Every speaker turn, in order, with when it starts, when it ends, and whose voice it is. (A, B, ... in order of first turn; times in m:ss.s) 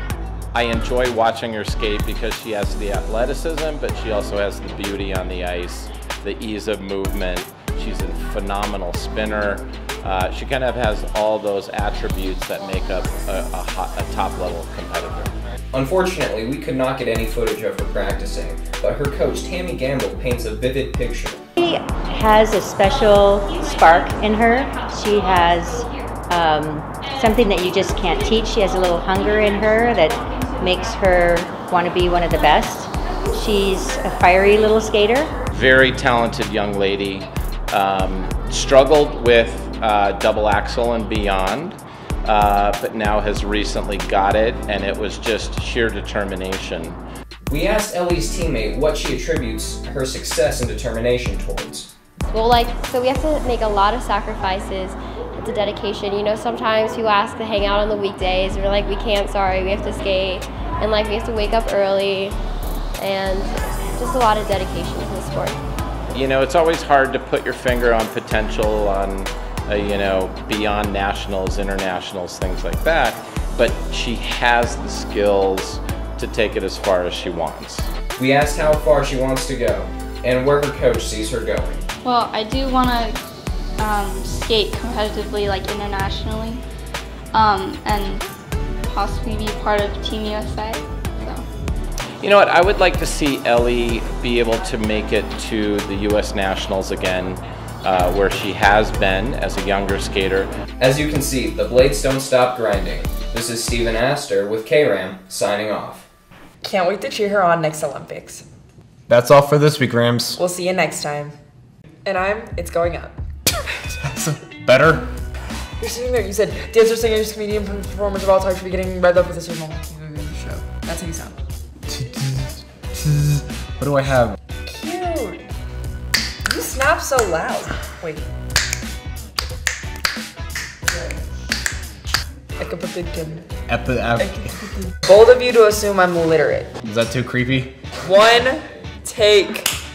0:00.5-0:15.3 A
0:15.7-0:21.4 B
0:21.6-0:35.3 C
0:35.5-0:47.0 A
0:47.5-0:51.9 B
0:52.3-1:02.4 D
1:03.0-1:05.6 D
1:06.1-1:17.9 A
1:18.2-1:21.8 B
1:22.0-1:23.2 E
1:23.8-1:26.6 E
1:27.3-1:28.2 E
1:28.9-1:31.4 E
1:32.2-1:40.5 A
1:40.8-1:46.0 B
1:46.6-1:48.4 F
1:49.1-1:50.4 G
1:50.4-1:51.3 F
1:52.0-1:53.2 F
1:54.1-1:55.1 G
1:55.8-2:01.4 F
2:01.9-2:04.4 G
2:04.6-2:05.5 F
2:06.4-2:08.2 F
2:12.6-2:13.5 F
2:13.7-2:14.4 G
2:14.2-2:16.7 F
2:16.8-2:17.8 G
2:18.0-2:19.7 F